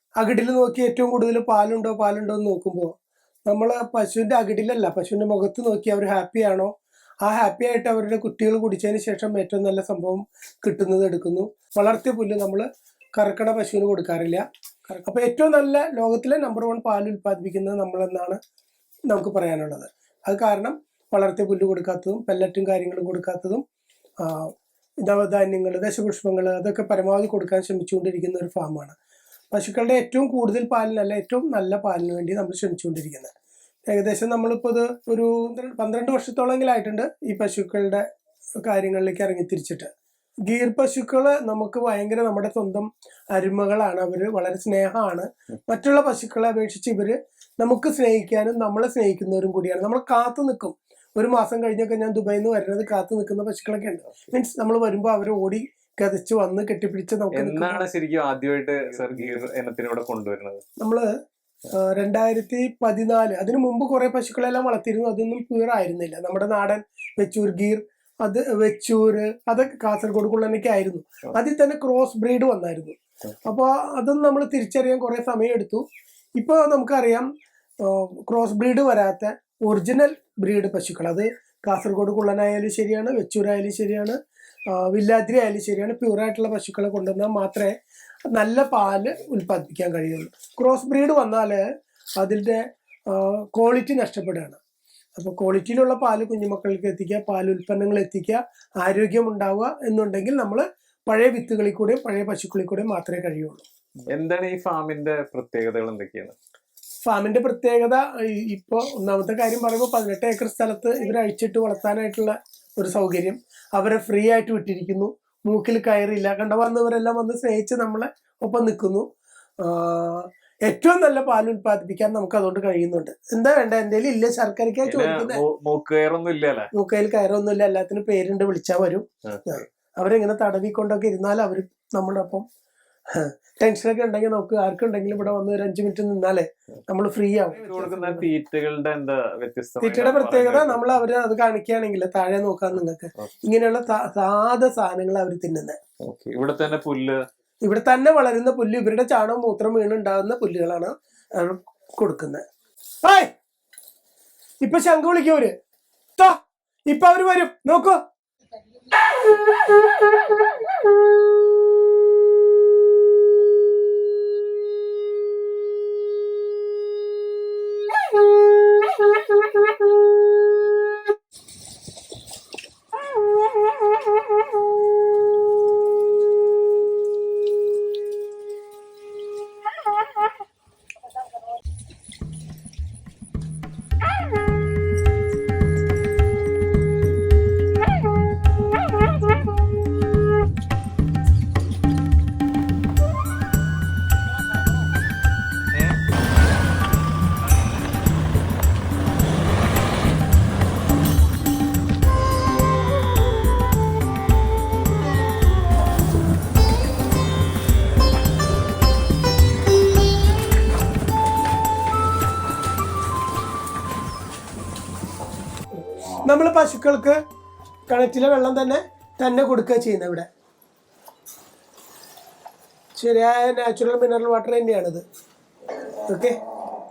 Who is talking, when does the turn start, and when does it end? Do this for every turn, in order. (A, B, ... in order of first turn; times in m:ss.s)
0:00.2-0:18.4 A
0:19.1-0:23.6 A
0:24.2-0:29.0 A
0:29.5-0:33.3 A
0:33.9-0:38.1 A
0:38.6-0:39.9 A
0:40.5-0:57.8 A
0:57.3-1:00.6 B
1:00.8-1:01.2 A
1:01.7-1:15.8 A
1:16.4-1:17.3 A
1:17.8-1:24.2 A
1:24.7-1:27.8 A
1:28.3-1:31.6 A
1:32.2-1:34.6 A
1:35.2-1:43.6 A
1:44.1-1:46.4 B
1:47.0-1:59.1 A
1:59.6-2:05.4 A
2:04.8-2:06.7 B
2:06.7-2:12.4 A
2:13.1-2:18.3 A
2:17.6-2:21.0 B
2:19.8-2:25.8 A
2:26.0-2:27.2 B
2:27.6-2:32.4 A
2:33.0-2:33.3 A
2:34.6-2:35.6 A
2:36.2-2:38.0 A
3:36.3-3:37.2 A
3:37.9-3:40.3 A
3:43.0-3:45.0 A
3:46.1-3:46.4 A